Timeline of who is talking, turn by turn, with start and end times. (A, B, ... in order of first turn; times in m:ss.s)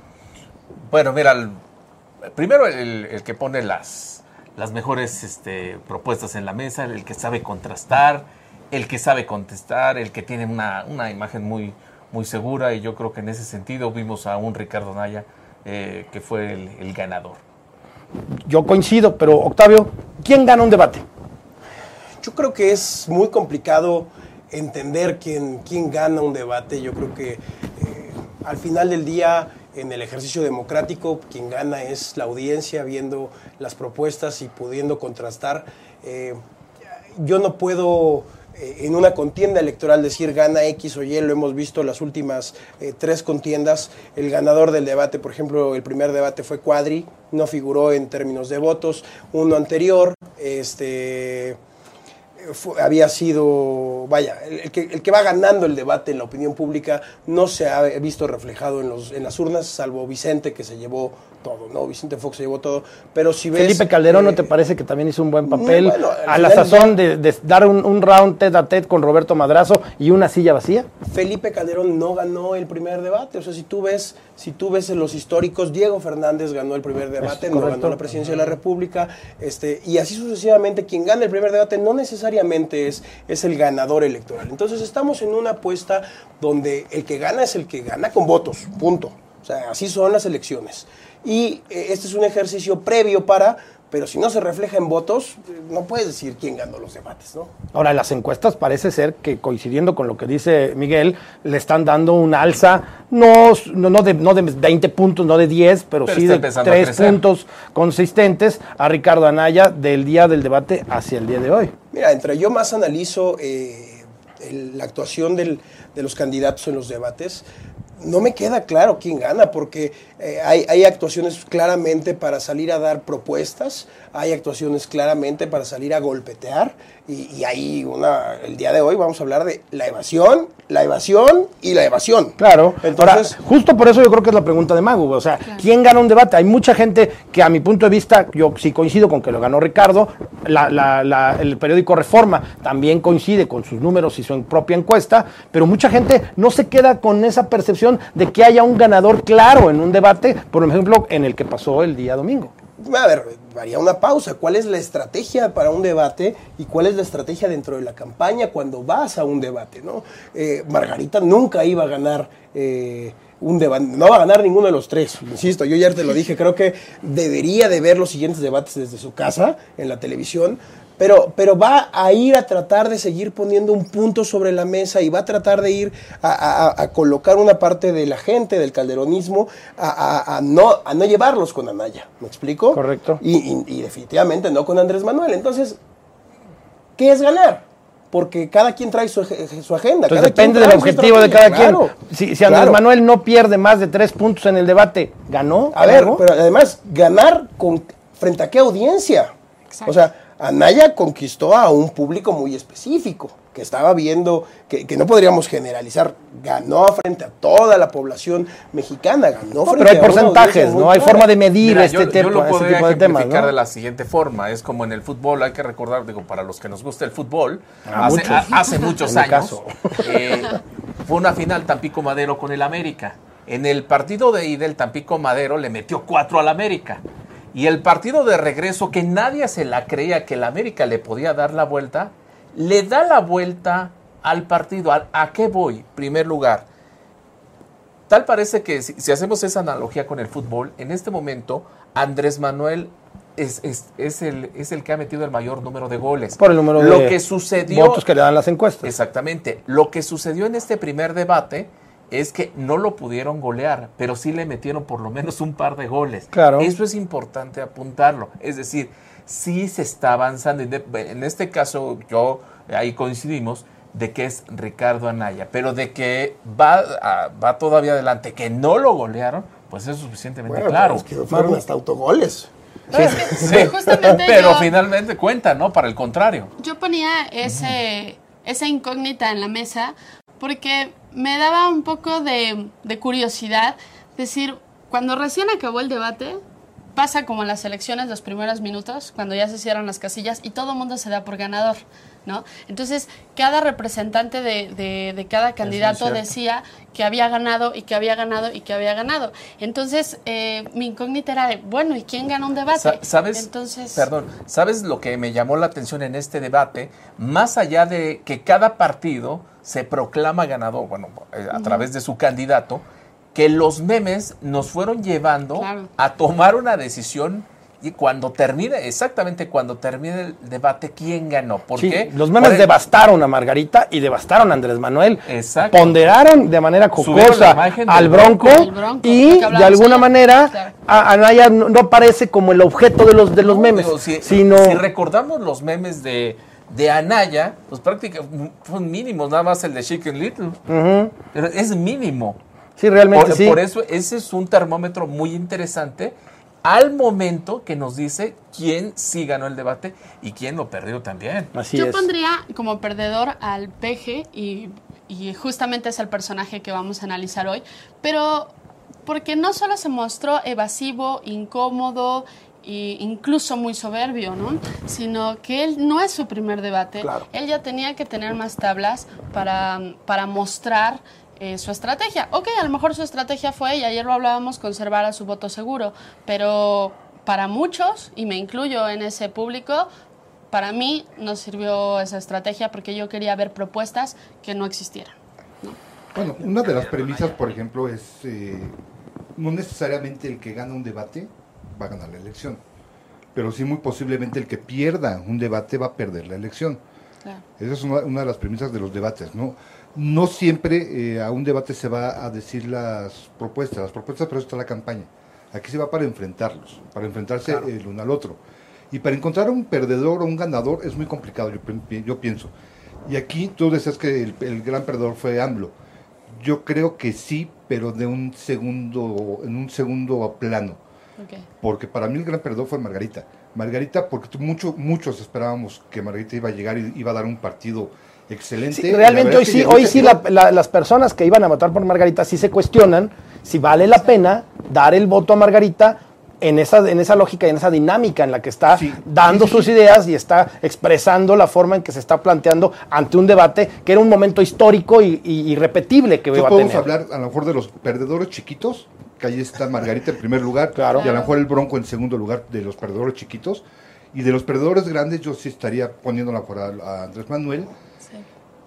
0:00.9-0:01.6 A
0:02.3-0:17.4 A
0:18.4-0:21.0 B
0:22.2-0:36.4 C
0:37.2-0:51.6 C
0:52.4-1:04.5 C
1:03.5-1:10.9 B
1:05.4-1:07.0 C
1:11.0-1:37.5 C
1:17.2-1:18.0 B
1:37.7-1:51.7 B
1:46.0-1:47.2 A
1:51.9-1:57.4 C
1:58.0-2:13.3 C
2:12.4-2:32.5 B
2:32.8-3:05.8 C
3:02.7-3:03.2 B
3:07.0-3:11.9 C
3:10.1-3:16.2 B
3:12.4-3:12.8 C
3:15.7-3:19.3 C
3:19.7-3:20.0 D
3:19.8-3:31.3 C
3:29.6-3:33.5 B
3:31.6-3:47.0 A
3:37.8-3:40.3 B
3:47.5-3:56.7 A
3:58.1-4:08.0 A
4:06.4-4:08.9 B
4:08.8-4:31.1 A
4:16.3-4:16.7 B
4:30.5-4:34.1 C
4:31.3-4:31.6 B
4:32.9-4:34.7 D
4:33.3-4:36.5 A
4:36.6-4:46.4 D
4:46.9-5:04.1 D
4:55.6-4:56.3 A
5:02.8-5:12.8 A
5:11.5-5:11.8 D
5:13.3-5:22.7 A
5:15.5-5:15.9 D
5:21.8-5:34.8 B
5:25.2-5:26.0 A
5:27.0-5:28.7 A
5:28.4-5:30.7 D
5:33.4-5:40.6 A
5:40.7-5:41.1 B
5:41.3-5:42.4 A
5:42.8-5:43.6 B
5:43.1-5:51.5 A
5:51.5-5:52.1 B
5:51.7-5:58.5 D
5:59.0-6:19.9 D
6:20.5-6:25.8 D
6:26.1-6:28.7 E
6:29.4-6:32.6 E
6:33.3-6:36.8 E
6:37.6-6:48.4 E
6:48.9-6:52.5 E
6:53.0-6:55.7 E
6:56.3-7:00.8 E
7:01.2-7:01.4 D
7:01.6-7:10.2 E
7:08.7-7:26.9 B
7:18.7-7:19.7 E
7:26.3-7:37.7 E
7:30.7-7:31.1 B
7:31.0-7:31.4 D